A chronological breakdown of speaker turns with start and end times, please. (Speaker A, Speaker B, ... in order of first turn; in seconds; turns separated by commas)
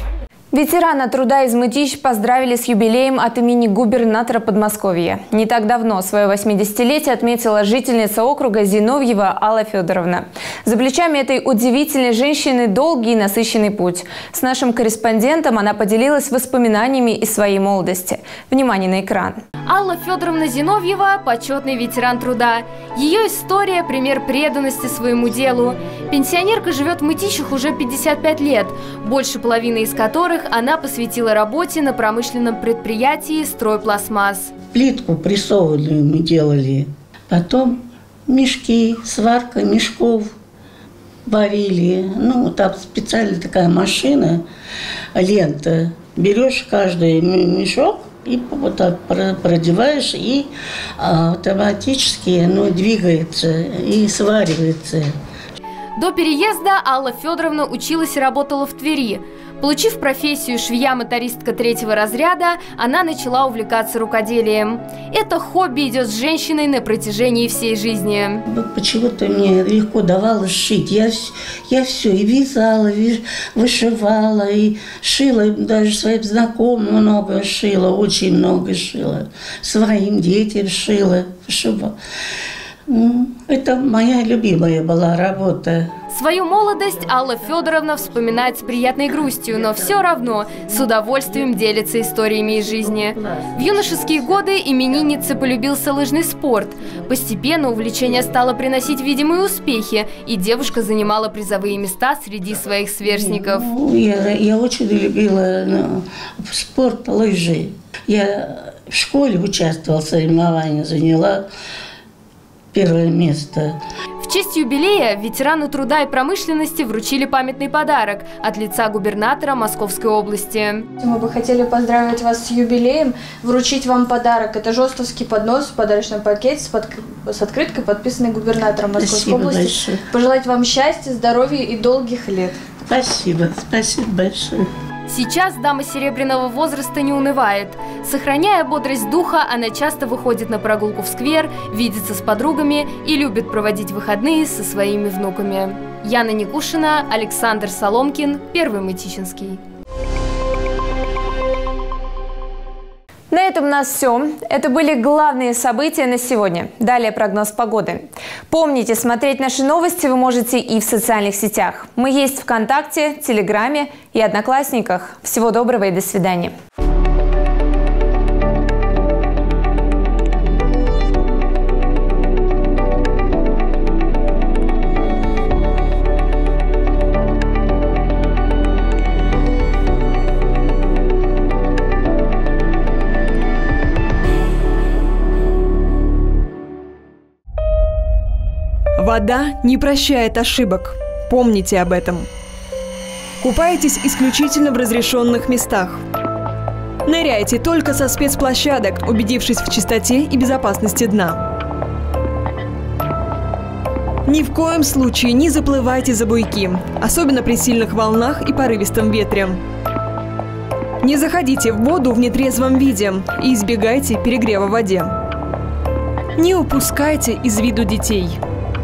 Speaker A: 0.5-19.4, Speaker B: 19.6-34.5, Speaker C: 34.7-40.3, Speaker C: 41.2-44.4, Speaker C: 45.1-55.1, Speaker B: 56.0-68.4, Speaker C: 68.5-82.0, Speaker C: 82.9-85.9, Speaker B: 86.1-103.7, Speaker C: 103.0-111.5, Speaker C: 112.7-113.8, Speaker B: 114.2-120.9, Speaker D: 121.0-132.6, Speaker C: 129.0-130.0, Speaker C: 132.8-134.7, Speaker B: 135.1-149.6, Speaker A: 153.3-166.5, Speaker E: 189.0-192.3, Speaker E: 193.4-196.0, Speaker E: 197.1-201.4, Speaker E: 204.2-209.6, Speaker E: 211.0-215.2, Speaker E: 216.3-218.4